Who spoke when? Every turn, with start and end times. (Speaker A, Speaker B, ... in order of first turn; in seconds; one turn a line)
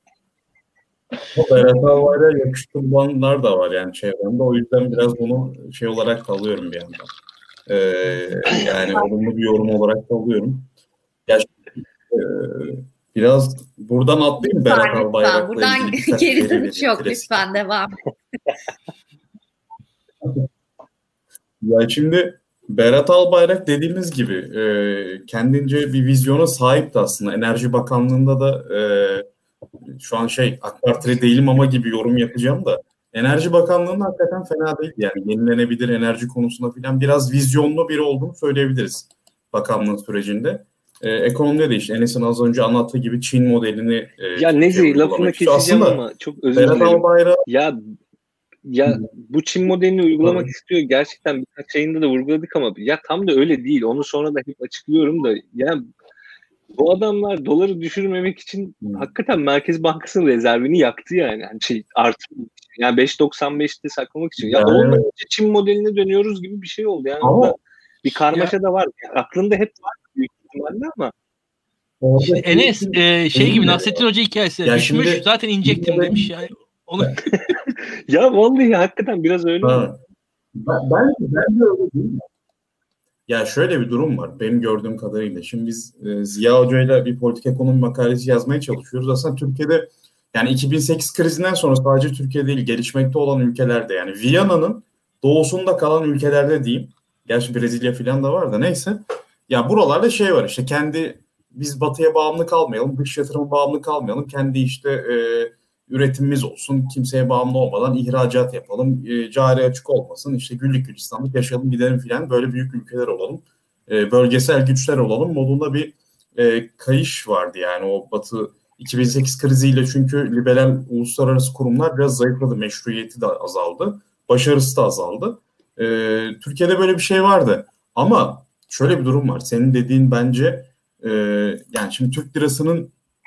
Speaker A: 1.3-7.1
Speaker A: 7.7-10.7
Speaker A: 11.3-11.5
Speaker A: 12.1-17.4
Speaker B: 14.4-18.0
Speaker A: 21.6-29.2
Speaker A: 29.9-46.0
Speaker C: 44.4-47.8
Speaker A: 46.5-47.4
Speaker C: 48.6-55.9
Speaker A: 50.2-50.5
Speaker C: 56.7-71.1
Speaker A: 64.4-65.0
Speaker A: 67.2-67.5
Speaker A: 72.0-74.0
Speaker D: 72.2-77.2
Speaker A: 74.6-76.3
Speaker C: 78.1-79.8
Speaker A: 79.6-80.0
Speaker A: 80.5-82.2
Speaker A: 83.3-132.9